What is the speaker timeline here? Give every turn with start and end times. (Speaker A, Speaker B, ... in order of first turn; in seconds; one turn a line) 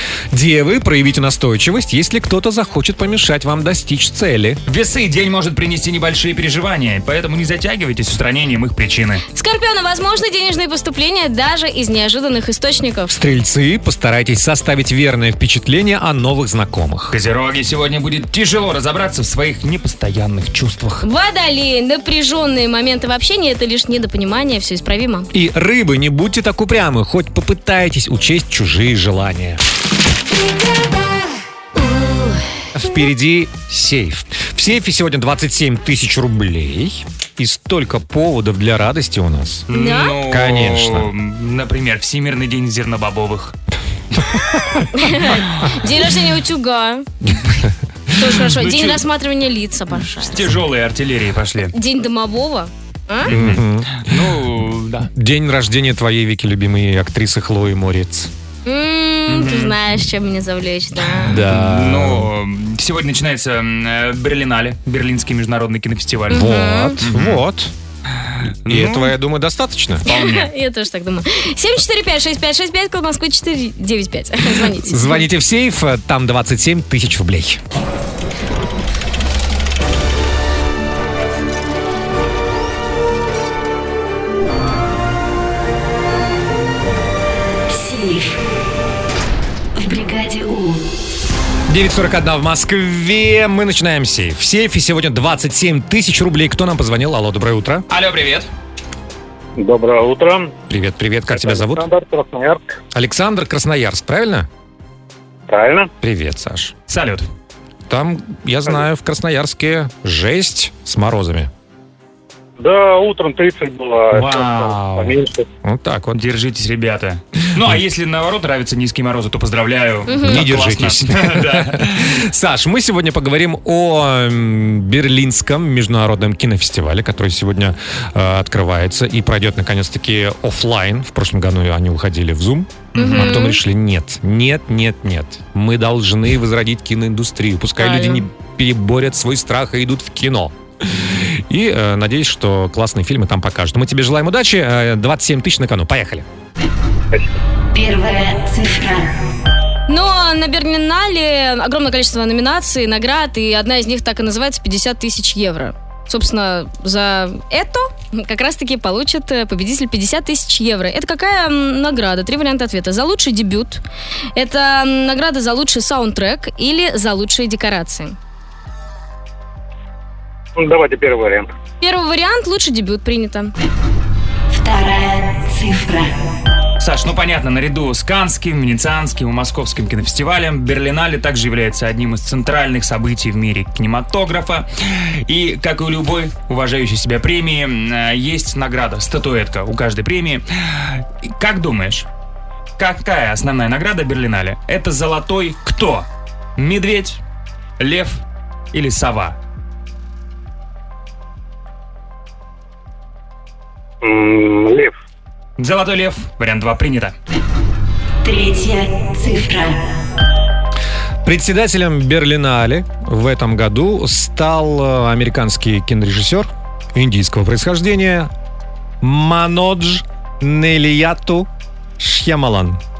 Speaker A: 0.3-4.6
Speaker B: 4.7-9.2
Speaker C: 9.3-13.2
Speaker A: 13.1-17.1
Speaker B: 17.1-21.0
Speaker C: 21.0-25.3
Speaker A: 25.3-29.6
Speaker A: 32.7-39.6
Speaker B: 39.7-43.5
Speaker C: 39.7-40.1
Speaker A: 40.2-41.1
Speaker C: 44.9-47.1
Speaker C: 48.1-50.5
Speaker B: 48.4-49.0
Speaker B: 50.1-51.7
Speaker C: 51.7-53.3
Speaker B: 53.2-55.1
Speaker A: 53.3-54.3
Speaker A: 55.1-58.3
Speaker C: 58.6-61.4
Speaker B: 59.3-59.8
Speaker B: 61.2-66.5
Speaker A: 61.2-62.3
Speaker A: 66.3-67.7
Speaker C: 66.3-67.0
Speaker B: 67.0-67.4
Speaker B: 68.2-69.1
Speaker A: 68.7-70.0
Speaker B: 70.0-70.5
Speaker C: 70.0-75.2
Speaker A: 74.8-77.6
Speaker D: 87.7-88.4
Speaker D: 89.8-90.8
Speaker A: 91.7-97.8
Speaker B: 97.9-98.5
Speaker E: 99.6-100.5
Speaker A: 100.7-101.9
Speaker E: 101.3-102.6
Speaker A: 102.9-104.5
Speaker E: 105.5-105.9
Speaker A: 106.0-106.7
Speaker B: 106.9-107.3
Speaker A: 107.9-111.5
Speaker E: 112.6-115.5
Speaker B: 114.1-115.2
Speaker A: 115.6-116.2
Speaker B: 116.1-122.1
Speaker C: 120.1-120.5
Speaker A: 120.2-146.2
Speaker B: 132.9-133.4
Speaker C: 132.9-133.6
Speaker C: 137.8-138.2
Speaker D: 147.7-149.1
Speaker C: 149.9-163.8
Speaker C: 164.3-168.2
Speaker E: 170.6-171.5
Speaker C: 171.8-173.5
Speaker D: 174.5-176.1
Speaker B: 176.8-192.1
Speaker B: 192.8-197.2
Speaker B: 197.8-198.2
Speaker B: 198.7-199.3
Speaker E: 204.0-204.9
Speaker B: 205.6-207.2
Speaker D: 208.2-209.8
Speaker A: 211.2-218.3
Speaker A: 219.0-221.5
Speaker A: 222.0-222.8